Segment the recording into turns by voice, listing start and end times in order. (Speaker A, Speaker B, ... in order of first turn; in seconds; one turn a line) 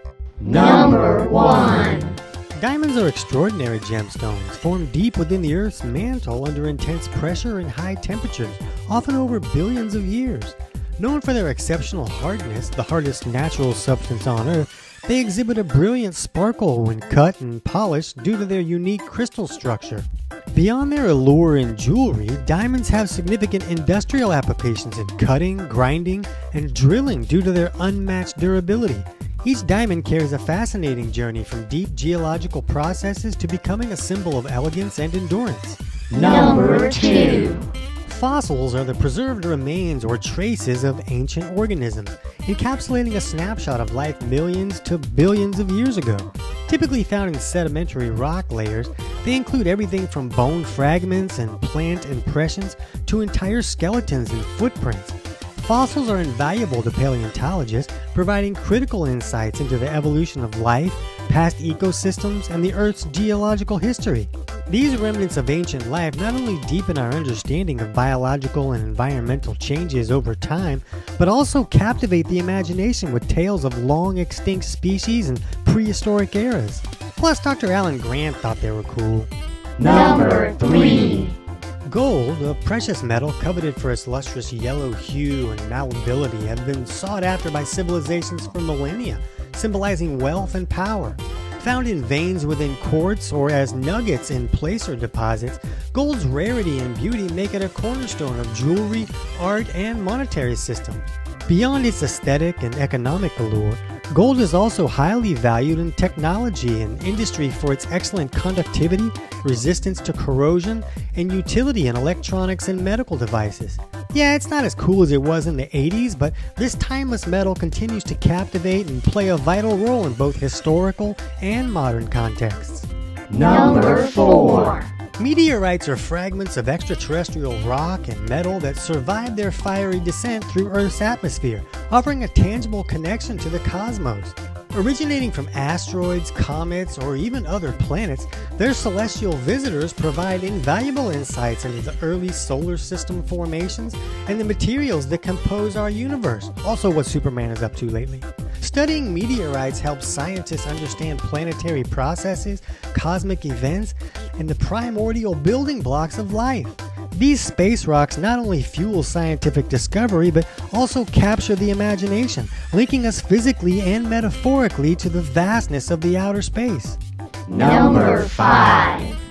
Speaker A: 0.4-2.2
Speaker B: 2.6-35.8
Speaker A: 36.1-37.7
Speaker B: 38.0-79.3
Speaker A: 79.8-81.3
Speaker B: 81.9-122.9
Speaker A: 123.3-124.9
Speaker B: 125.2-167.0
Speaker A: 167.5-169.2